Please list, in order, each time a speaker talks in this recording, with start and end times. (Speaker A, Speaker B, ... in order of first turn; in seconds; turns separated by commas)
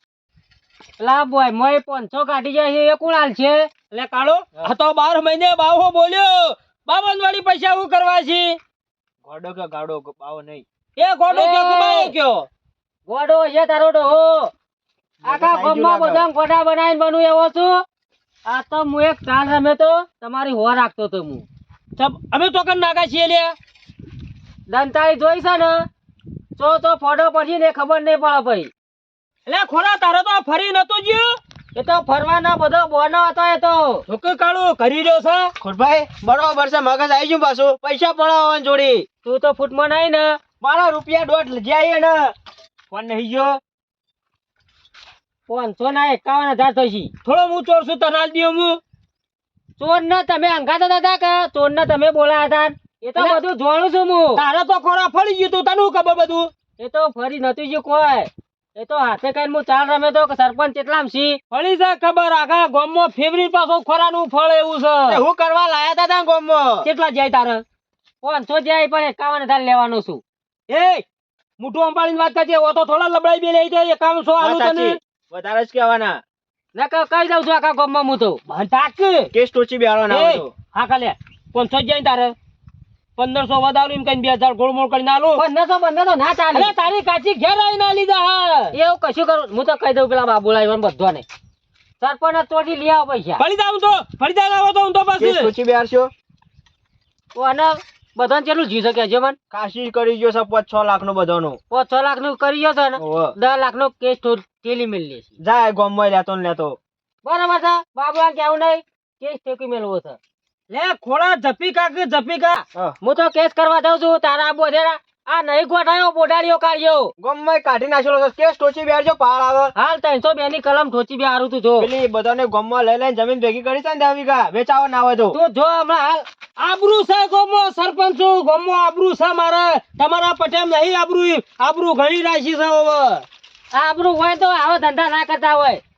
Speaker A: 1.0-3.7, Speaker B: 3.9-8.6, Speaker C: 9.2-10.6, Speaker B: 11.0-12.5, Speaker A: 11.3-12.1, Speaker A: 13.1-14.5, Speaker C: 15.2-16.2, Speaker A: 15.3-17.8, Speaker A: 18.4-21.4, Speaker B: 22.0-23.5, Speaker A: 24.7-25.8, Speaker A: 26.6-28.7, Speaker B: 29.4-31.4, Speaker A: 31.7-34.0, Speaker B: 34.1-35.5, Speaker C: 35.6-39.0, Speaker A: 39.2-40.4, Speaker C: 40.6-42.3, Speaker C: 42.9-43.6, Speaker A: 45.5-47.1, Speaker B: 47.2-48.8, Speaker A: 49.8-54.4, Speaker B: 53.1-53.4, Speaker B: 54.4-56.5, Speaker A: 56.8-61.4, Speaker B: 61.5-65.2, Speaker C: 65.0-66.9, Speaker B: 66.8-67.6, Speaker A: 68.2-70.2, Speaker B: 70.7-71.0, Speaker B: 71.6-75.0, Speaker C: 74.4-76.2, Speaker A: 76.7-78.4, Speaker B: 78.5-79.3, Speaker C: 79.3-80.5, Speaker B: 80.1-82.3, Speaker B: 83.2-85.4, Speaker A: 85.3-86.8, Speaker B: 86.5-88.7, Speaker A: 88.7-91.2, Speaker A: 92.0-93.4, Speaker B: 93.4-95.5, Speaker C: 95.2-96.1, Speaker A: 97.3-99.4, Speaker C: 99.5-101.6, Speaker A: 101.7-105.3, Speaker C: 103.0-103.3, Speaker C: 105.4-106.8, Speaker A: 107.2-110.2, Speaker B: 110.7-112.6, Speaker A: 113.0-117.1, Speaker C: 117.2-119.7, Speaker A: 119.8-121.9, Speaker C: 121.8-125.4, Speaker A: 125.3-126.2, Speaker B: 126.6-133.2, Speaker A: 133.7-135.8